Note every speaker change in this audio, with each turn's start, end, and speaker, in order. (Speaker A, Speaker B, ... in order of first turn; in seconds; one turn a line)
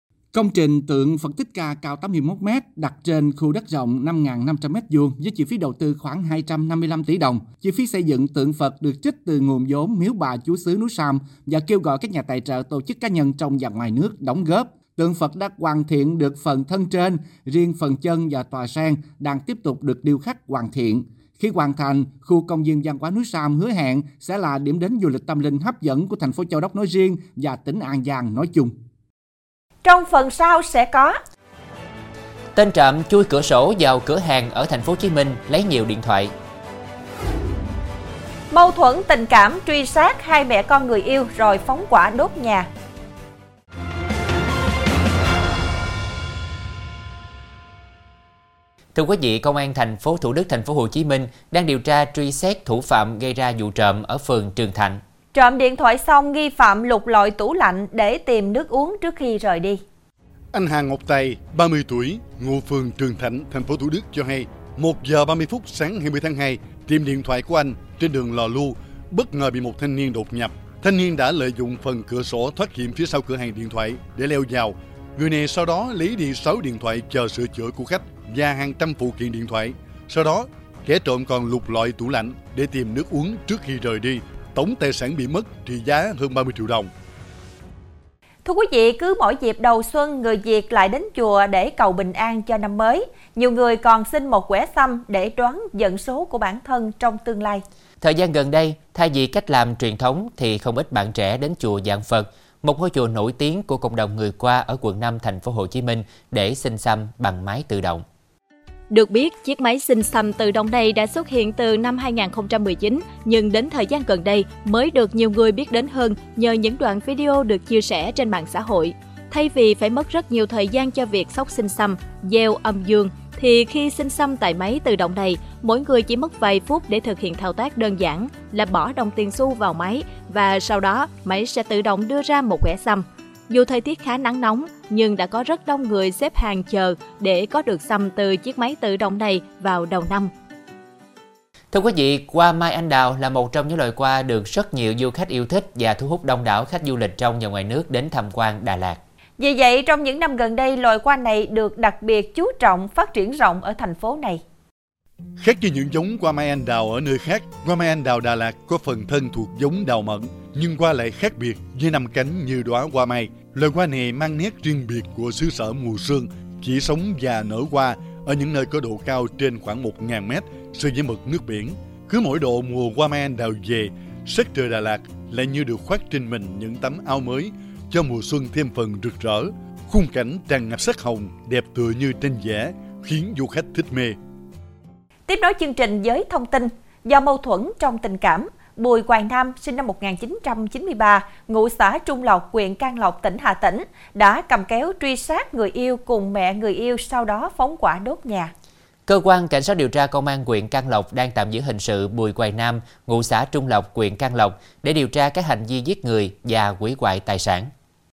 Speaker A: 0.3-28.7
Speaker B: 29.8-31.1
Speaker C: 32.5-36.3
Speaker B: 38.5-42.7
Speaker C: 48.9-55.0
Speaker B: 55.3-59.8
Speaker D: 60.5-86.9
Speaker B: 88.4-97.6
Speaker C: 98.0-108.0
Speaker E: 108.9-140.3
Speaker C: 141.7-149.0
Speaker B: 149.4-154.4
Speaker D: 155.4-184.2
Speaker B: 185.3-198.5
Speaker C: 199.1-207.7